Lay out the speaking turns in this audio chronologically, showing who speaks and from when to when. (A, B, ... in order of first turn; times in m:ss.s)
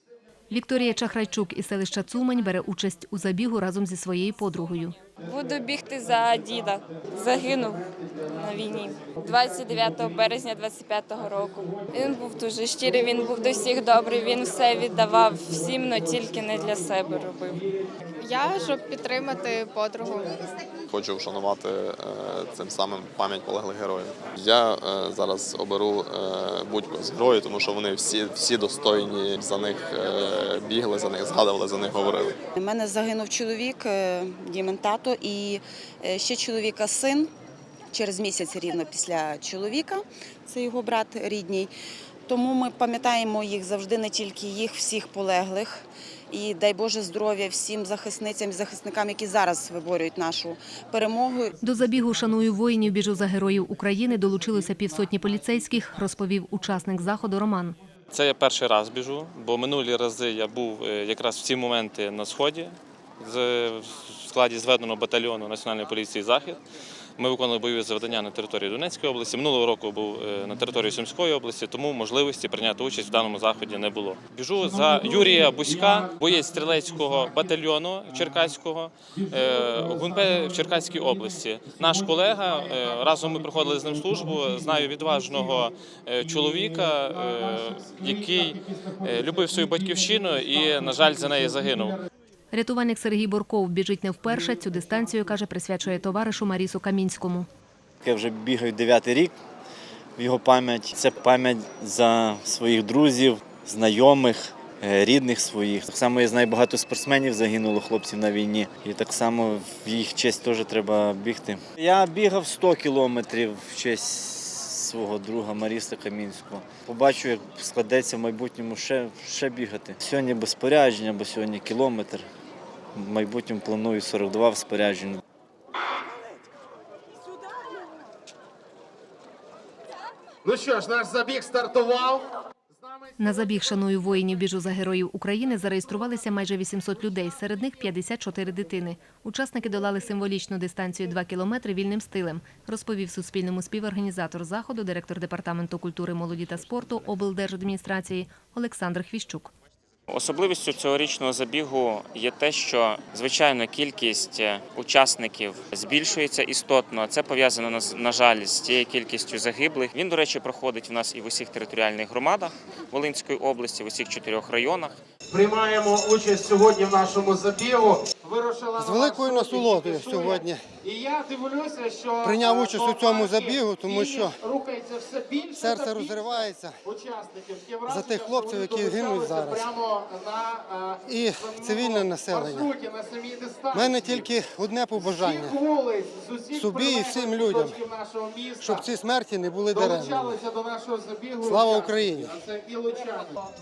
0:00.5-0:05.0 A
0:05.2-0:17.6 B
0:18.2-0:20.4 C
0:20.9-0:32.4 D
0:32.6-0:37.3 E
0:37.9-0:41.7 E
0:42.3-0:51.6 E
0:51.6-0:57.8 A
0:58.1-1:06.6 F
1:07.2-1:32.0 F
1:14.6-1:17.5 G
1:19.1-1:21.1 G
1:23.2-1:24.6 G
1:27.9-1:28.3 G
1:32.5-1:37.5 A
1:38.0-1:39.3 H
1:40.2-2:02.2 H
2:02.9-2:05.2 H
2:10.4-2:13.1 G
2:13.2-2:29.5 A
2:30.1-2:44.9 I
2:45.3-3:04.3 G
2:48.8-2:50.7 J
2:52.2-2:54.4 J
2:55.5-2:56.8 J
2:57.9-2:59.7 J
3:01.0-3:02.8 J
3:03.7-3:05.6 J
3:05.0-3:08.8 G
3:06.5-3:07.8 J
3:08.6-3:10.4 J
3:09.7-3:13.4 G
3:11.4-3:12.4 J